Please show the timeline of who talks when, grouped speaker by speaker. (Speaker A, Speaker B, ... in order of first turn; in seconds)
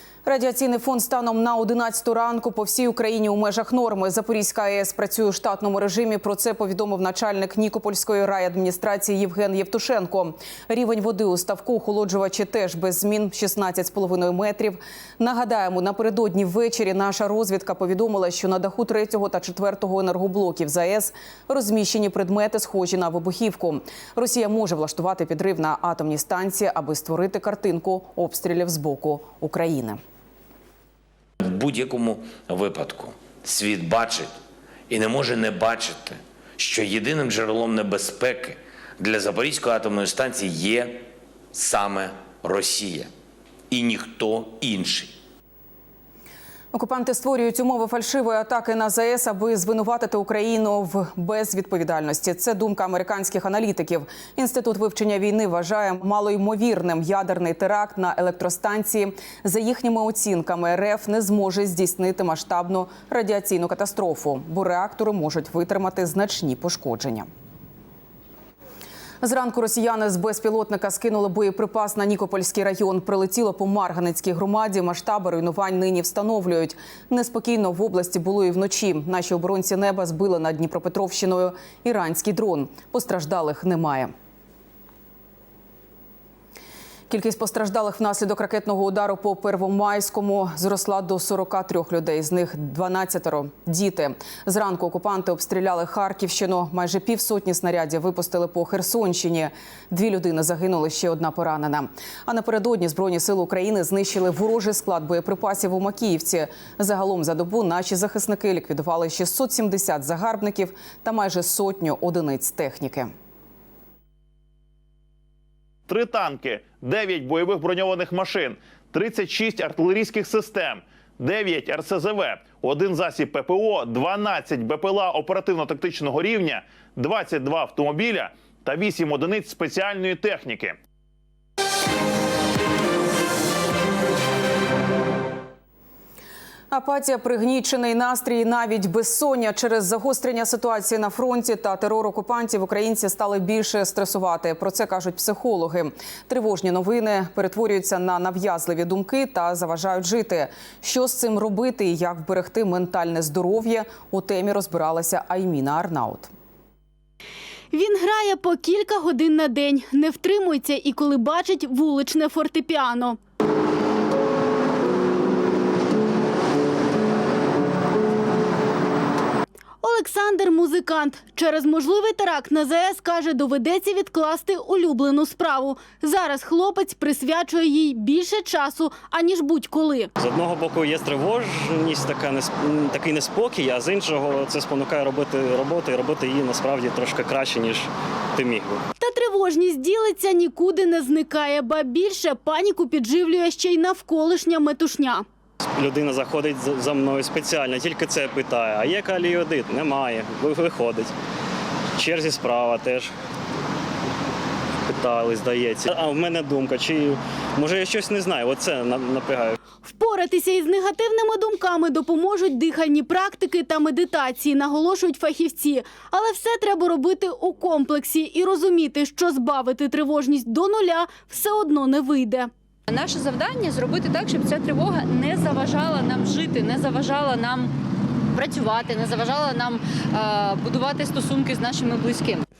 Speaker A: 0.2-30.0, 46.7-67.3, 69.2-84.1, 87.1-113.1, 136.7-156.3
Speaker B: 31.4-34.3, 34.9-43.1, 43.7-45.1
Speaker C: 115.9-130.8
Speaker D: 157.7-163.2, 169.8-180.1, 189.0-195.2, 209.8-222.5
Speaker E: 180.2-188.8, 195.7-201.1, 201.9-203.1, 204.8-209.6
Speaker F: 222.9-227.7, 228.3-232.4